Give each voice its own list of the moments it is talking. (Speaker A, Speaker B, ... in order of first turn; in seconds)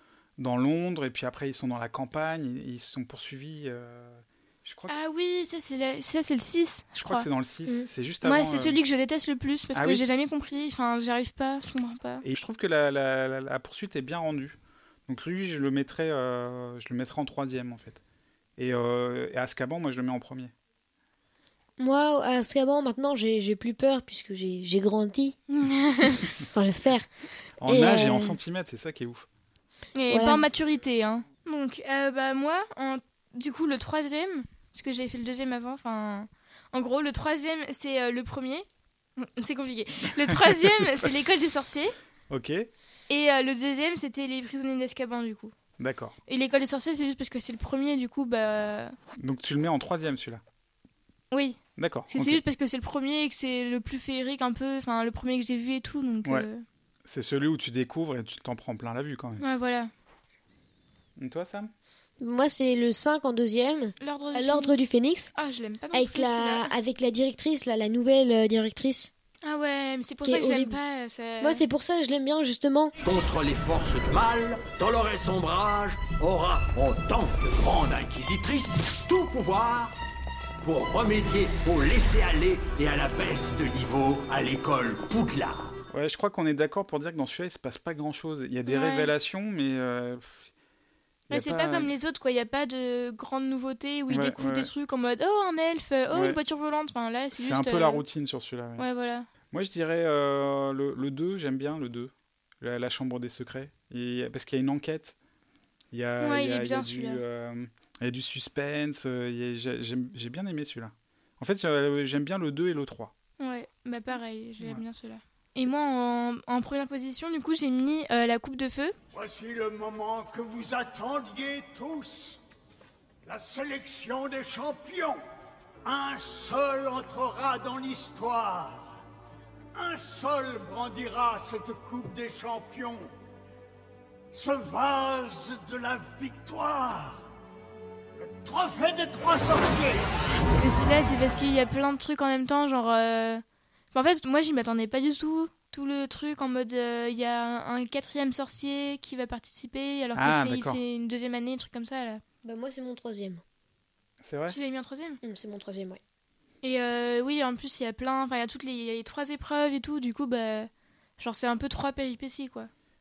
Speaker A: 0.4-5.1, 7.0-8.8, 9.7-10.0, 12.2-18.0, 18.6-20.5, 27.6-29.3, 40.3-41.1, 42.3-42.7, 45.8-46.1, 49.2-50.4, 51.8-52.4, 57.0-59.4, 61.2-61.7, 85.9-90.5, 91.3-91.9, 94.1-94.7, 96.1-96.4, 97.3-98.8, 99.5-105.2, 105.9-113.1, 150.1-150.8, 154.2-154.6
Speaker B: 4.9-7.3, 8.2-12.2, 25.5-26.2, 29.9-38.6, 39.2-41.9, 43.1-45.5, 46.3-48.9, 51.3-51.6, 52.1-56.6, 59.4-59.9, 64.0-66.7, 69.4-71.6, 88.7-89.1, 91.3-98.0, 98.8-99.3, 106.2-107.2, 113.4-119.0, 140.6-152.2, 154.5-155.2, 156.6-162.7
Speaker C: 21.8-25.4, 26.4-27.1, 27.6-28.4, 30.1-30.4, 62.2-65.3, 65.9-69.1, 70.2-70.8, 71.4-72.9, 152.4-153.4, 155.2-156.0
Speaker D: 73.0-80.0, 80.6-85.8
Speaker E: 119.1-122.4, 123.2-125.2, 125.8-129.0, 129.7-133.1, 134.3-137.3, 138.2-140.1